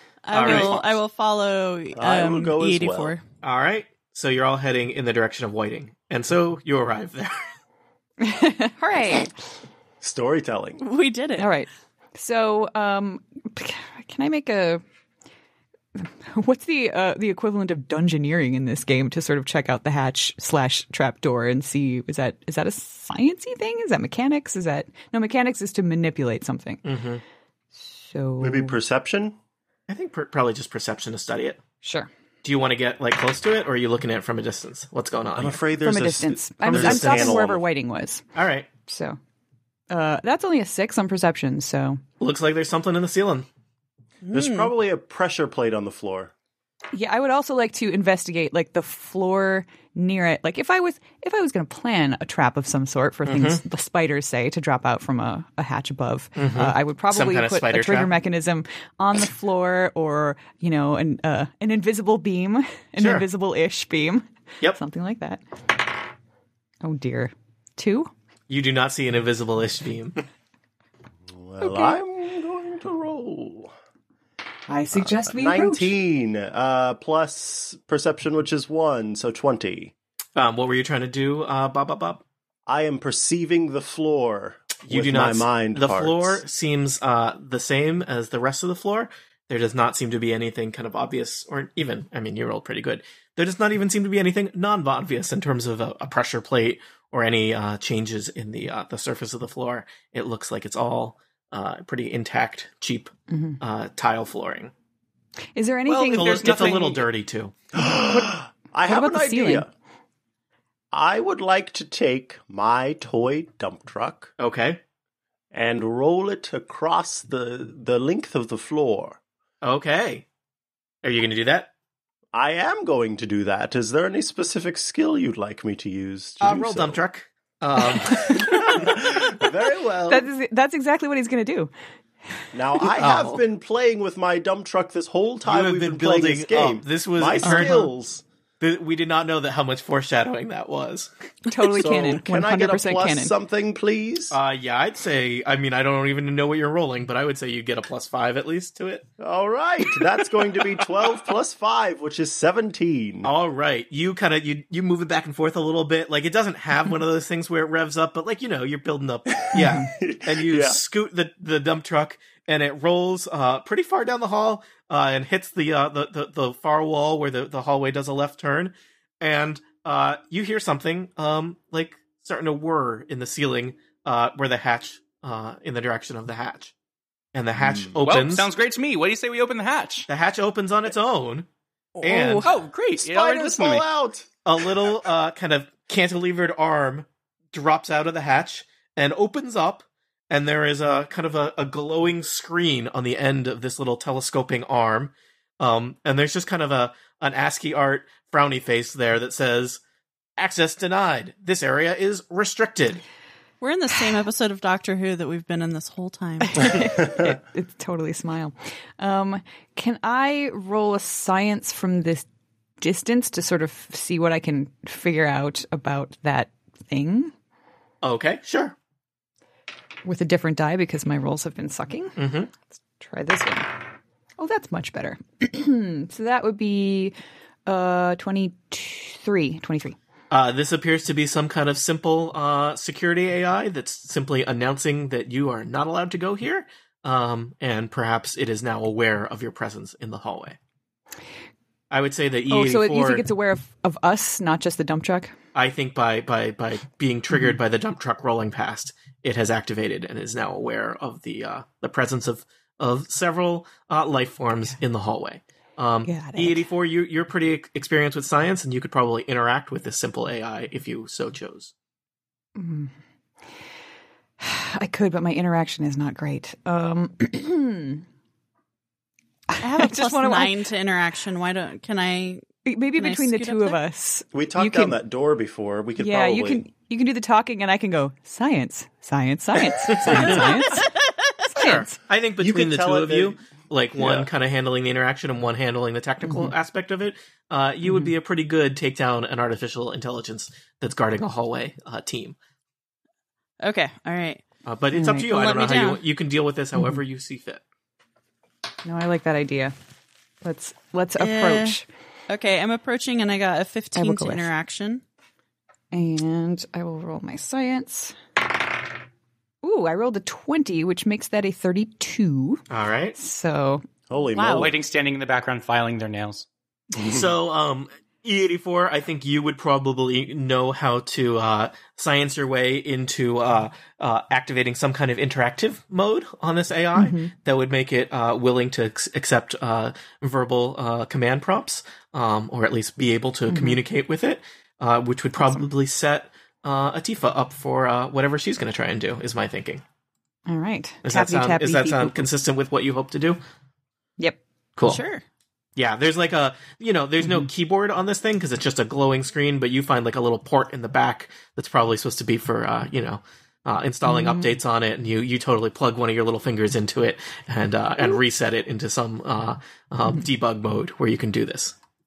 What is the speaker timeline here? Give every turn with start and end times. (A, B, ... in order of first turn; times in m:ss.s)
0:00.2-0:03.2 A
0:00.3-0:01.0 B
0:02.0-0:03.1 C
0:03.4-0:07.4 B
0:08.2-0:09.3 D
0:10.0-0:10.8 C
0:10.8-0:11.5 A
0:11.4-0:14.8 D
0:16.0-0:26.8 D
0:26.8-0:27.2 B
0:27.8-0:28.8 D
0:28.4-0:29.4 C
0:29.9-0:31.6 B
0:31.8-0:32.1 D
0:32.4-0:35.6 B
0:35.4-0:37.6 C
0:35.8-0:38.2 D
0:36.7-0:37.4 B
0:38.4-0:38.7 B
0:38.9-0:39.2 D
0:39.9-0:42.0 D
0:42.2-0:43.5 B
0:44.2-0:44.7 A
0:44.3-0:46.3 C
0:46.9-1:05.4 D
0:53.3-0:53.6 B
0:56.4-0:58.1 B
1:03.0-1:03.3 B
1:06.8-1:08.1 D
1:08.5-1:10.2 B
1:11.3-1:13.7 C
1:11.6-1:12.0 D
1:14.7-1:15.9 D
1:15.0-1:19.9 C
1:20.4-1:22.2 B
1:22.7-1:26.4 C
1:24.8-1:44.7 B
1:43.3-1:43.6 D
1:45.6-1:47.0 D
1:45.9-1:47.0 E
1:46.1-1:47.6 B
1:47.8-1:49.7 C
1:47.8-1:49.7 D
1:50.9-1:54.3 C
1:54.4-1:54.8 B
1:55.5-1:59.2 C
1:59.6-2:00.3 B
2:01.0-2:01.7 B
2:02.3-2:07.0 C
2:06.4-2:09.0 B
2:08.3-2:10.3 C
2:10.1-2:11.7 D
2:12.5-2:18.2 C
2:13.0-2:13.4 B
2:15.5-2:17.9 B
2:17.4-2:17.9 D
2:18.6-2:21.1 B
2:21.5-2:23.3 D
2:21.7-2:24.4 C
2:24.3-2:29.1 B
2:29.2-2:33.3 C
2:33.2-2:56.7 B
2:39.5-2:40.8 C
2:39.6-2:39.8 D
2:57.3-2:58.5 B
2:58.0-3:00.1 E
3:00.1-3:01.5 B
3:02.0-3:02.5 B
3:02.4-3:03.9 E
3:03.0-3:04.9 C
3:04.4-3:19.8 B
3:20.4-3:23.0 B
3:23.6-3:26.8 A
3:26.4-3:32.3 D
3:32.8-3:37.3 D
3:38.0-3:38.8 B
3:40.0-3:42.2 D
3:42.2-3:42.5 B
3:42.8-3:43.8 D
3:44.4-3:47.2 D
3:47.7-3:50.0 D
3:50.3-4:00.6 B
4:01.9-4:03.2 B
4:02.5-4:05.3 D
4:05.6-4:21.7 B
4:07.3-4:07.6 D
4:16.1-4:16.6 D
4:22.6-4:22.9 D
4:24.4-4:28.0 D
4:29.5-4:30.6 D
4:29.6-4:33.8 A
4:32.6-4:35.0 D
4:34.3-4:36.6 C
4:36.0-4:40.9 D
4:40.0-4:40.4 B
4:40.1-4:41.3 A
4:41.5-4:42.0 D
4:41.6-4:52.4 B
4:42.4-4:43.4 C
4:44.0-4:44.3 C
4:46.2-4:46.5 D
4:47.8-4:48.1 D
4:53.6-4:54.4 A
4:54.7-4:57.6 B
4:55.0-4:55.2 D
4:55.2-4:56.0 A
4:56.8-4:57.0 D
4:58.8-4:59.7 D
5:00.4-5:01.9 D
5:01.2-5:05.0 A
5:04.0-5:04.5 D
5:05.9-5:08.2 D
5:09.6-5:12.6 D
5:12.7-5:13.2 B
5:13.2-5:13.8 D
5:14.1-5:14.8 C
5:14.3-5:14.7 A
5:14.5-5:16.5 E
5:17.0-5:17.3 C
5:17.0-5:39.8 B
5:27.0-5:27.3 D
5:33.5-5:33.8 D
5:40.5-5:42.3 D
5:41.0-5:43.4 B
5:44.8-5:45.2 A
5:45.8-6:01.8 B
5:47.2-5:47.5 D
5:54.0-5:54.5 D